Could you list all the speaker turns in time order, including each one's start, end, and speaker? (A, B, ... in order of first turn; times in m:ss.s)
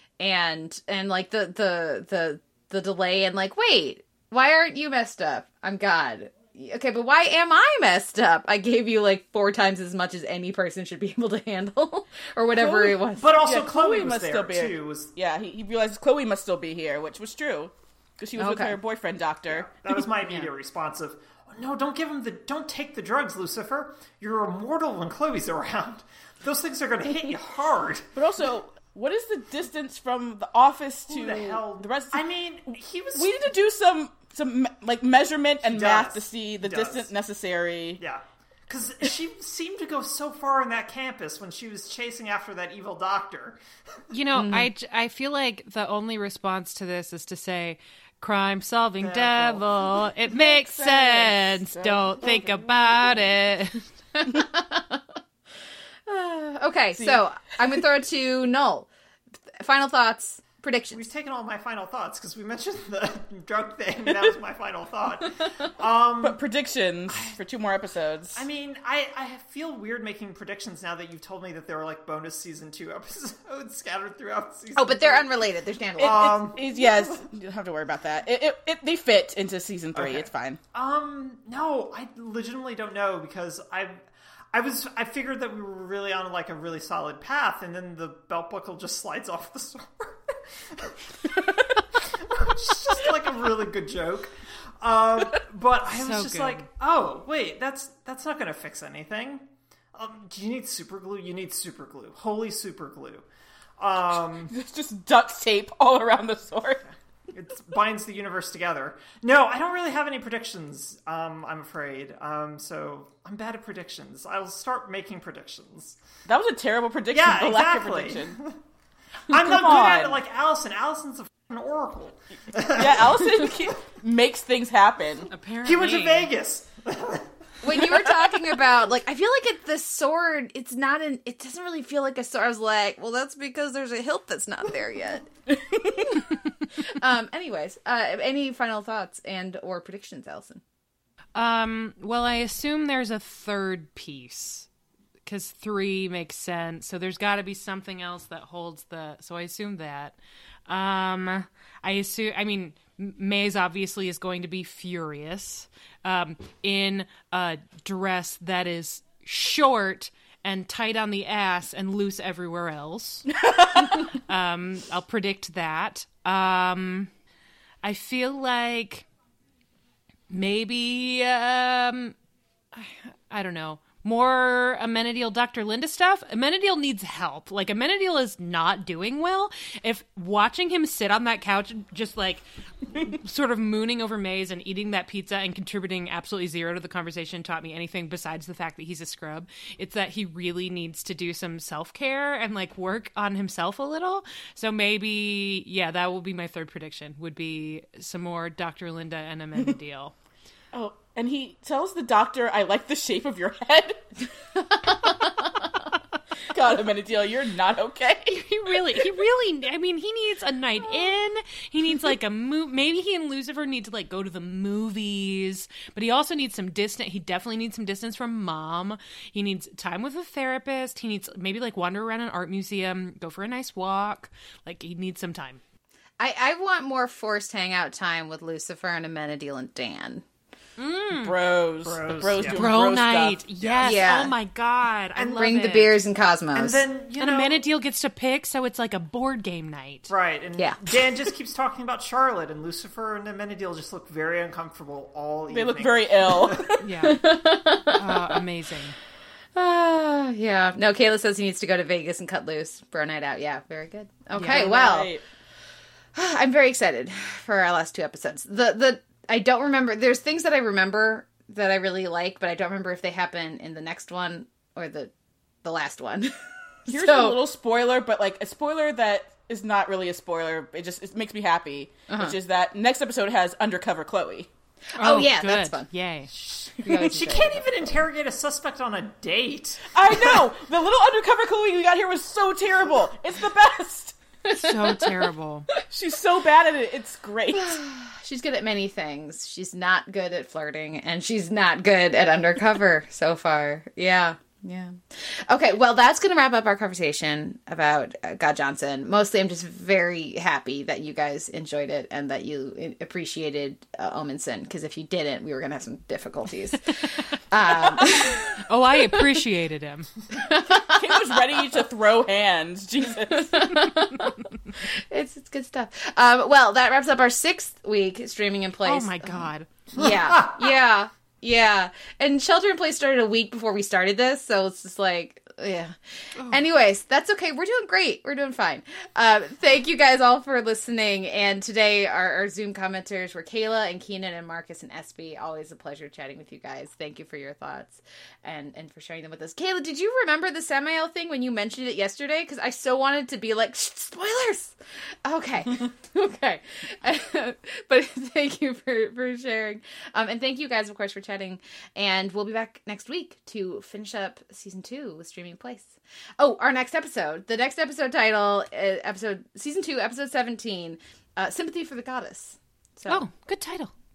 0:00.2-0:13.4 A
0:12.6-0:19.7 B
0:13.2-0:15.1 C
0:18.4-0:18.8 A
0:19.5-0:28.0 C
0:28.1-0:38.0 B
0:31.1-0:33.5 C
0:35.6-0:37.0 C
0:38.0-0:43.6 C
0:44.1-0:53.9 D
0:44.4-0:44.7 A
0:49.0-0:49.8 C
0:50.2-0:53.2 B
0:54.1-0:55.2 A
0:56.1-1:01.0 A
0:57.0-0:57.2 B
1:00.9-1:06.4 C
1:04.0-1:04.3 B
1:06.2-1:08.4 B
1:07.1-1:07.4 C
1:08.3-1:15.3 C
1:14.7-1:16.4 A
1:16.0-1:17.0 C
1:16.0-1:20.6 B
1:19.9-1:24.0 C
1:24.5-1:43.2 C
1:31.3-1:31.6 B
1:35.9-1:36.6 D
1:43.8-1:44.5 C
1:44.5-1:46.8 B
1:47.3-1:56.0 C
1:56.2-1:58.4 B
1:57.1-1:58.6 C
1:59.3-2:03.5 C
1:59.3-2:00.2 B
2:02.8-2:05.3 B
2:05.3-2:06.3 D
2:05.6-2:07.3 C
2:07.6-2:20.6 A
2:15.5-2:16.0 B
2:21.4-2:24.7 D
2:25.2-2:47.1 D
2:43.4-2:44.0 B
2:47.8-2:49.1 D
2:50.3-2:52.2 D
2:52.7-3:20.1 D
3:20.7-3:24.0 B
3:24.7-3:25.5 A
3:26.5-3:29.0 B
3:28.2-3:45.6 D
3:46.2-3:50.2 A
3:50.8-3:51.3 D
3:51.1-3:53.4 B
3:51.8-3:52.6 C
3:52.5-3:55.9 D
3:53.6-3:54.2 C
3:53.8-3:54.3 A
3:55.2-3:55.5 C
3:55.2-3:56.8 A
3:56.5-3:57.6 C
3:57.2-4:00.1 D
4:00.1-4:06.7 C
4:05.5-4:06.8 B
4:06.8-4:07.2 D
4:07.0-4:08.4 A
4:07.8-4:09.0 D
4:09.5-4:15.1 A
4:14.3-4:14.6 D
4:14.4-4:15.2 B
4:16.1-4:25.1 A
4:25.6-4:26.3 A
4:26.8-4:27.4 A
4:26.9-4:34.5 B
4:32.1-4:32.3 A
4:34.9-4:36.3 D
4:35.0-4:35.9 A
4:36.3-4:40.4 C
4:36.8-4:37.6 A
4:39.9-4:44.2 B
4:44.4-4:45.2 A
4:44.5-4:45.7 D
4:45.8-4:47.8 B
4:47.5-5:08.6 A
5:08.6-5:10.1 D
5:10.3-5:11.8 A
5:10.7-5:13.7 B
5:13.3-6:03.2 A
5:18.8-5:19.7 D
5:20.0-5:20.7 C
6:03.1-6:03.9 D